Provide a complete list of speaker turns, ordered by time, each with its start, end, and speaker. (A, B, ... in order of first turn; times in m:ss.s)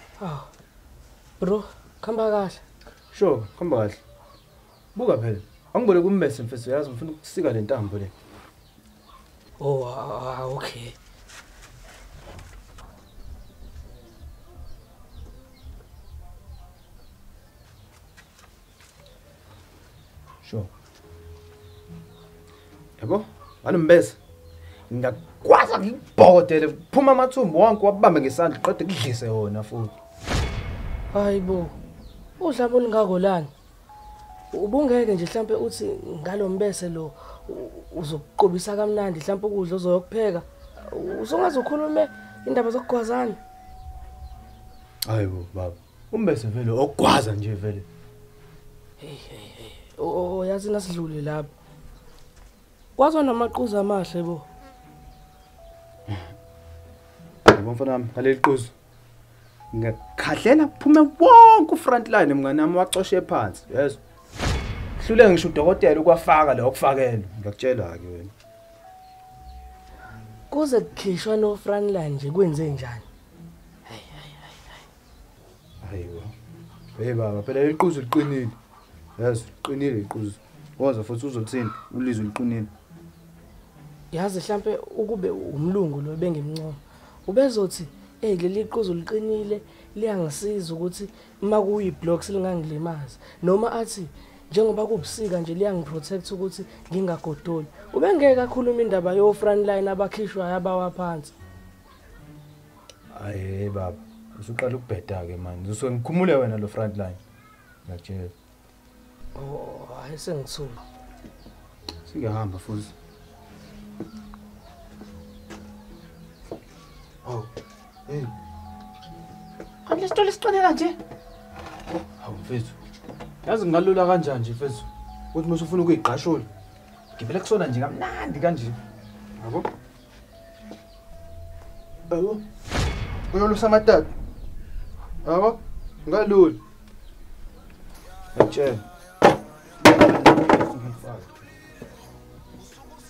0:00.2-0:00.5 A
0:01.4-0:02.6 A
0:03.1-0:04.0 B
0:04.9-0:08.1 B
0:09.6-0:11.0 A
0:20.4-0:20.7 B
0:23.0-0:24.2 B
0:24.9-0:29.9 B
0:31.1-0:31.8 A
0:32.4-0:33.5 A
0:34.5-0:43.4 A
0:45.0-0:47.9 B
0:49.0-0:51.5 A
0:53.0-0:54.4 A
0:57.5-0:58.7 B
0:59.7-1:04.0 B
1:05.0-1:08.3 B
1:10.5-1:13.0 A
1:13.8-1:14.8 A
1:15.8-1:16.3 B
1:17.0-1:18.6 B
1:19.2-1:22.7 B
1:24.1-1:41.3 A
1:43.1-1:47.2 B
1:47.8-1:48.3 B
1:49.3-1:50.8 A
1:52.0-1:52.9 B
1:58.1-1:58.3 B
1:59.8-2:01.0 B
2:02.2-2:02.8 B
2:03.4-2:06.5 B
2:07.2-2:08.8 B
2:09.4-2:09.7 B
2:12.1-2:12.4 B
2:13.3-2:14.1 B
2:15.2-2:16.6 B
2:18.3-2:18.8 B
2:19.8-2:21.3 B